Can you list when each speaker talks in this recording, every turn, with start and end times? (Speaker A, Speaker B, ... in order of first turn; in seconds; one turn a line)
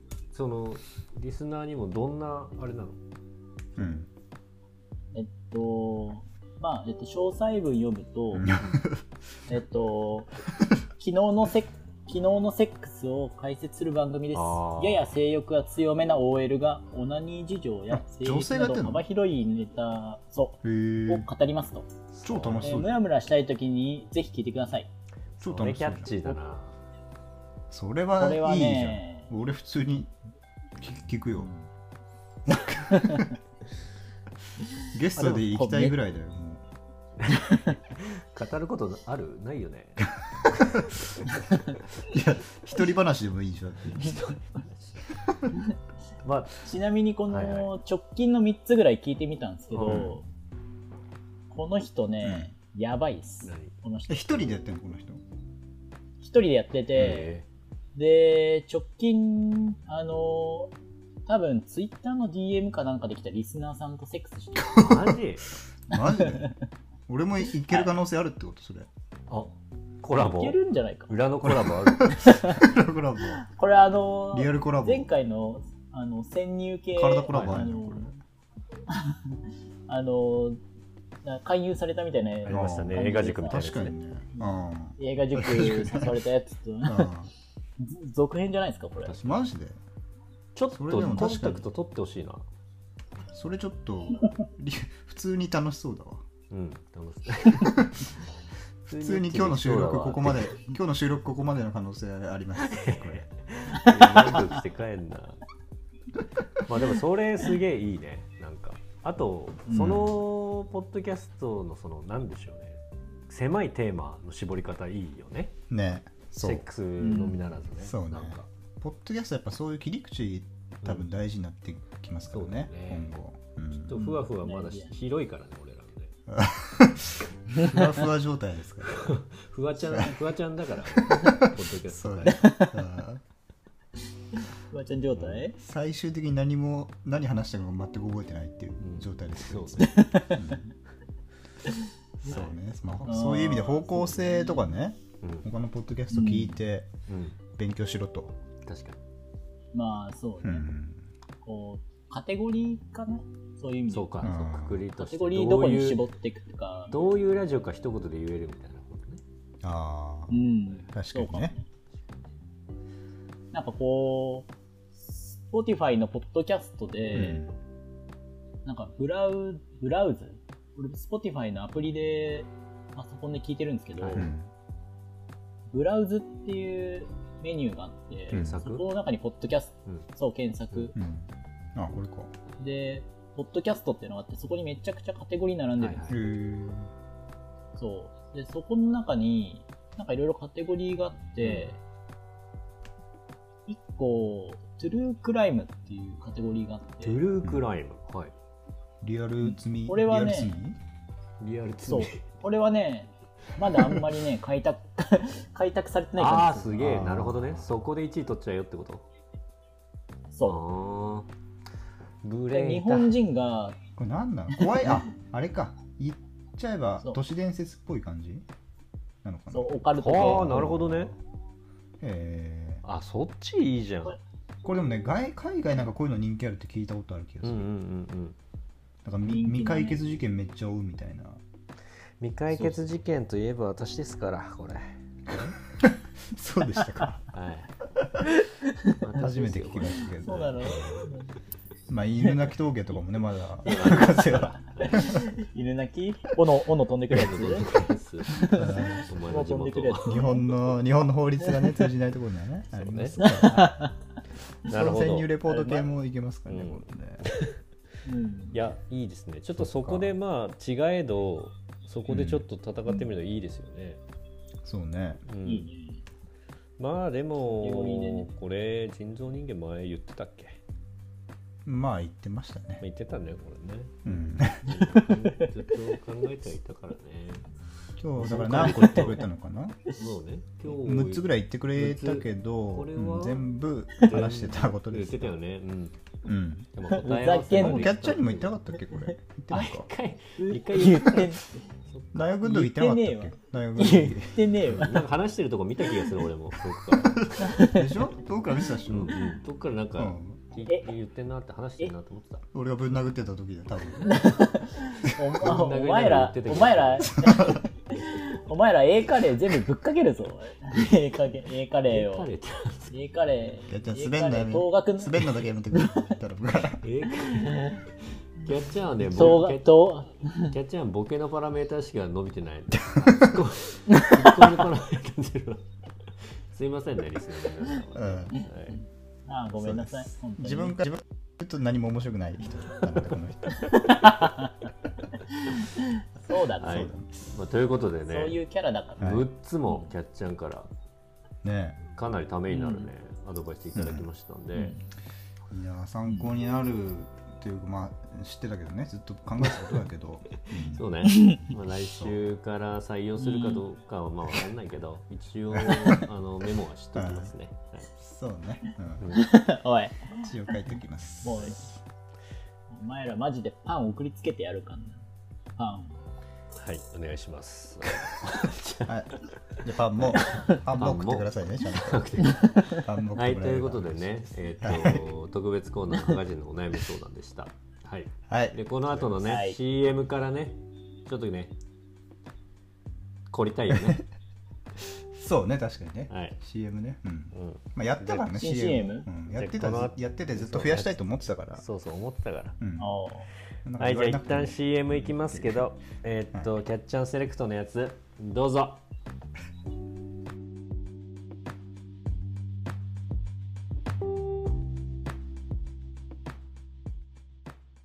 Speaker A: 0.3-3.0
Speaker B: 3.8-4.1
Speaker C: 5.1-8.6
Speaker B: 8.3-9.0
Speaker C: 9.5-10.4
Speaker C: 10.9-21.9
Speaker A: 14.3-15.1
Speaker B: 17.9-19.0
Speaker B: 20.6-21.3
Speaker A: 22.1-22.9
Speaker B: 22.2-23.0
Speaker C: 22.6-24.9
Speaker A: 25.4-26.7
Speaker B: 25.4-26.4
Speaker B: 27.7-30.1
Speaker C: 28.2-29.3
Speaker B: 30.8-31.5
Speaker C: 32.7-33.3
Speaker C: 34.7-36.0
Speaker B: 34.9-36.6
Speaker C: 37.3-37.7
Speaker A: 37.5-40.1
Speaker B: 40.5-41.0
Speaker B: 42.0-44.1
Speaker A: 43.9-45.2
Speaker A: 46.2-46.5
Speaker C: 46.6-50.2
Speaker A: 47.3-47.7
Speaker A: 49.7-50.1
Speaker B: 49.8-50.1
Speaker C: 51.5-54.6
Speaker B: 52.2-52.5
Speaker A: 53.4-53.7
Speaker B: 54.1-55.2
Speaker C: 56.2-57.3
Speaker A: 56.9-57.5
Speaker C: 57.9-60.7
Speaker C: 61.3-64.9
Speaker B: 64.5-65.2
Speaker A: 64.7-65.5
Speaker B: 65.9-66.5
Speaker C: 65.9-66.5
Speaker B: 67.1-68.9
Speaker A: 69.3-72.4
Speaker C: 70.1-71.1
Speaker B: 71.4-73.4
Speaker C: 72.1-72.7
Speaker C: 73.3-78.2
Speaker B: 74.3-75.1
Speaker B: 76.9-78.1
Speaker A: 77.3-77.6
Speaker C: 78.9-80.6
Speaker C: 81.2-83.6
Speaker A: 82.4-83.9
Speaker B: 82.5-86.1
Speaker C: 84.3-87.1
Speaker B: 86.8-87.3
Speaker C: 87.8-89.1
Speaker A: 89.0-89.4
Speaker B: 89.2-89.8
Speaker A: 90.5-92.4
Speaker B: 90.7-91.6
Speaker B: 93.3-96.2
Speaker A: 96.5-97.9
Speaker B: 97.7-98.0
Speaker A: 98.8-100.5
Speaker B: 98.9-103.2
Speaker A: 102.6-105.4
Speaker C: 103.9-104.3
Speaker A: 106.6-115.5
Speaker C: 109.7-110.0
Speaker B: 109.7-110.1
Speaker B: 115.7-116.6
Speaker A: 116.4-118.5
Speaker C: 117.0-117.4
Speaker B: 117.8-124.0
Speaker A: 122.3-123.2
Speaker A: 123.7-126.1
Speaker C: 123.9-124.9
Speaker B: 126.3-129.0
Speaker C: 127.5-128.0
Speaker A: 128.9-132.4
Speaker B: 131.2-133.2
Speaker C: 132.2-132.8
Speaker C: 134.7-135.5
Speaker B: 135.6-140.7
Speaker A: 138.8-140.1
Speaker C: 139.8-140.4
Speaker B: 142.2-146.9
Speaker C: 143.0-144.7
Speaker A: 145.2-145.5
Speaker C: 146.1-146.6
Speaker A: 147.1-147.4
Speaker B: 147.6-148.3
Speaker A: 148.6-149.0
Speaker C: 149.7-150.6
Speaker B: 150.4-151.1
Speaker C: 151.4-154.3
Speaker A: 153.9-156.0
Speaker B: 154.2-154.8
Speaker C: 155.0-157.1
Speaker A: 156.9-159.2
Speaker B: 159.6-160.4
Speaker C: 160.3-161.7
Speaker B: 160.9-161.5
Speaker C: 163.5-167.4
Speaker B: 167.1-167.6
Speaker C: 168.6-174.3
Speaker A: 174.0-174.3
Speaker B: 174.1-174.5
Speaker C: 175.7-180.9
Speaker A: 178.3-178.8
Speaker B: 178.3-178.6
Speaker B: 180.9-182.3
Speaker C: 182.6-186.2
Speaker A: 185.8-186.2
Speaker B: 186.1-186.9
Speaker C: 187.8-191.8
Speaker A: 191.4-191.7
Speaker C: 193.7-197.2
Speaker A: 197.0-198.3
Speaker B: 199.0-200.8
Speaker C: 199.4-200.5
Speaker A: 201.4-202.2
Speaker C: 201.8-206.8
Speaker A: 206.2-209.0
Speaker B: 206.8-207.7
Speaker C: 210.3-210.6
Speaker A: 210.4-211.3
Speaker A: 212.2-213.1
Speaker C: 212.5-213.8
Speaker B: 214.0-218.4
Speaker C: 214.6-214.9
Speaker B: 219.2-221.2
Speaker C: 219.5-220.8
Speaker A: 220.0-221.1
Speaker B: 222.0-222.8
Speaker A: 222.8-224.2
Speaker B: 224.6-227.6
Speaker A: 227.4-228.4
Speaker B: 229.0-231.4
Speaker C: 229.3-230.0
Speaker A: 232.2-235.6
Speaker B: 235.3-237.2
Speaker A: 237.3-237.7
Speaker A: 239.0-241.1
Speaker B: 239.1-240.7
Speaker C: 240.2-241.3
Speaker B: 241.9-245.2
Speaker A: 243.6-245.1
Speaker C: 244.8-247.8
Speaker A: 247.1-250.2
Speaker C: 248.3-250.5
Speaker B: 248.5-249.0
Speaker B: 250.1-253.8
Speaker C: 251.5-251.8
Speaker A: 252.7-253.2
Speaker C: 253.2-253.9
Speaker A: 254.7-255.3
Speaker B: 254.7-257.2
Speaker C: 255.4-255.9
Speaker A: 256.5-257.6
Speaker C: 258.1-258.6
Speaker A: 258.5-264.0
Speaker B: 259.5-260.1
Speaker B: 262.1-262.4
Speaker B: 264.6-265.2
Speaker A: 265.2-265.7
Speaker C: 265.4-266.0
Speaker A: 266.8-270.6
Speaker C: 267.4-268.3
Speaker B: 271.6-272.8
Speaker A: 272.8-277.4
Speaker B: 274.0-274.7
Speaker C: 274.9-275.5
Speaker B: 278.0-279.8
Speaker A: 278.2-279.2
Speaker C: 278.5-279.2
Speaker A: 279.9-286.1
Speaker B: 280.6-285.4
Speaker B: 286.2-286.7
Speaker A: 286.7-288.6
Speaker C: 286.9-288.1
Speaker B: 287.5-289.9
Speaker A: 289.5-291.3
Speaker C: 290.4-291.7
Speaker A: 291.9-292.2
Speaker B: 292.1-294.4
Speaker C: 292.4-295.1
Speaker A: 294.6-297.3
Speaker B: 297.0-299.2
Speaker C: 297.4-298.0
Speaker A: 298.9-302.4
Speaker B: 299.9-300.4
Speaker B: 302.5-304.3
Speaker C: 304.0-312.3
Speaker A: 305.4-307.1
Speaker B: 307.1-307.6
Speaker A: 311.9-312.9
Speaker C: 312.9-316.1
Speaker B: 313.7-316.8
Speaker A: 316.8-317.8
Speaker C: 317.3-317.8
Speaker A: 318.4-319.8
Speaker C: 319.0-320.5
Speaker A: 320.5-325.7
Speaker B: 322.8-323.3
Speaker C: 323.9-324.4
Speaker A: 326.2-328.8
Speaker B: 327.9-328.4
Speaker C: 329.3-330.8
Speaker B: 329.6-333.6
Speaker C: 333.8-334.5
Speaker C: 335.8-336.9
Speaker A: 336.6-338.4
Speaker B: 336.7-337.2
Speaker C: 338.1-339.1
Speaker A: 339.0-340.7
Speaker B: 339.0-339.2
Speaker B: 341.4-341.8
Speaker A: 341.9-344.8
Speaker C: 342.5-342.9
Speaker B: 343.8-344.1
Speaker C: 344.6-344.9
Speaker B: 345.5-350.9
Speaker A: 350.5-357.9
Speaker C: 351.1-351.4
Speaker C: 353.2-353.6
Speaker B: 355.5-356.0
Speaker B: 356.9-357.3
Speaker B: 358.0-359.0
Speaker A: 359.0-359.3
Speaker C: 359.1-360.2
Speaker B: 360.2-361.7
Speaker C: 361.2-361.6
Speaker C: 362.7-365.0
Speaker C: 365.6-366.0
Speaker A: 366.6-368.9
Speaker B: 368.9-375.0
Speaker A: 370.5-381.5
Speaker C: 372.2-372.8
Speaker B: 378.3-379.1
Speaker C: 379.2-379.6
Speaker A: 383.3-384.0
Speaker B: 383.7-384.0
Speaker B: 385.1-391.6
Speaker A: 386.1-386.4
Speaker A: 387.3-388.3
Speaker C: 388.2-389.1
Speaker A: 389.3-391.0
Speaker A: 391.5-392.6
Speaker B: 392.6-392.9
Speaker C: 392.8-393.3
Speaker B: 393.6-395.6
Speaker A: 393.8-398.8